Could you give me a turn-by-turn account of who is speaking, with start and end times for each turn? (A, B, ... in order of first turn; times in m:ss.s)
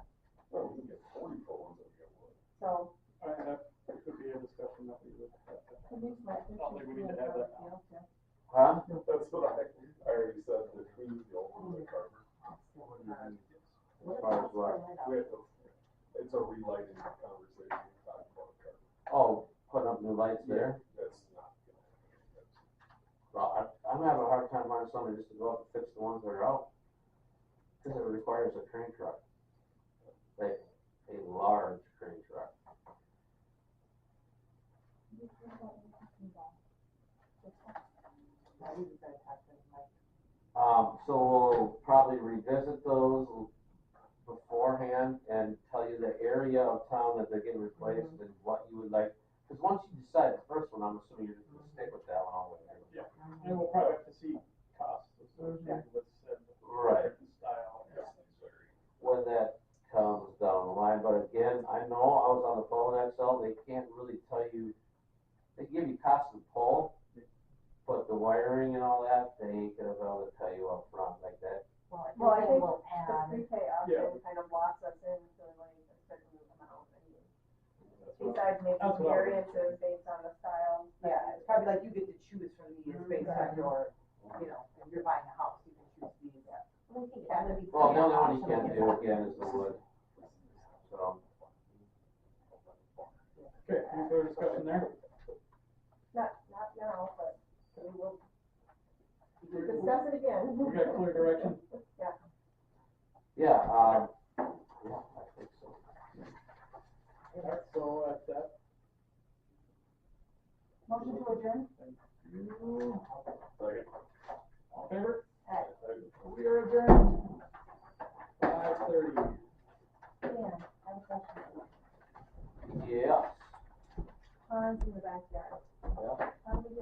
0:00.5-0:02.4 A
0:02.6-0:02.9 B
0:03.2-0:06.0 C
0:05.9-0:08.1 B
0:06.6-0:07.8 C
0:08.5-0:08.8 D
0:08.9-0:12.2 A
0:11.5-0:13.4 E
0:12.9-0:13.6 C
0:14.0-0:14.8 D
0:14.0-0:15.4 E
0:15.0-0:18.8 A
0:19.1-0:20.8 D
0:20.4-0:22.7 A
0:23.3-0:26.7 D
0:27.8-0:29.2 D
0:30.4-0:32.5 D
0:35.3-0:36.3 A
0:38.6-0:39.9 F
0:40.5-0:43.5 D
0:44.2-0:53.1 D
0:47.8-0:48.1 E
0:52.9-0:58.1 C
0:53.2-0:53.7 E
0:55.5-0:55.8 F
0:56.6-0:57.1 D
0:57.9-0:58.7 A
0:59.0-1:04.7 D
1:05.6-1:06.9 D
1:07.8-1:11.6 D
1:11.9-1:13.5 E
1:12.2-1:17.3 B
1:13.8-1:14.2 C
1:17.9-1:19.8 C
1:18.2-1:21.9 B
1:21.0-1:26.6 F
1:23.0-1:23.6 B
1:26.9-1:29.3 E
1:27.3-1:27.8 B
1:27.7-1:29.8 D
1:28.8-1:29.7 A
1:30.2-1:30.7 A
1:30.9-1:31.2 D
1:33.4-1:34.2 F
1:33.6-1:34.9 C
1:36.1-1:38.2 B
1:39.4-1:39.9 F
1:39.4-1:41.6 C
1:39.6-1:42.2 B
1:43.3-1:44.1 D
1:44.8-1:45.8 D
1:47.4-1:48.5 C
1:50.9-1:51.7 F
1:50.9-1:53.0 C
1:54.7-1:55.2 C
1:56.2-1:57.3 C
1:58.4-1:59.4 C
2:02.7-2:03.5 D
2:04.5-2:05.6 B
2:05.9-2:06.2 D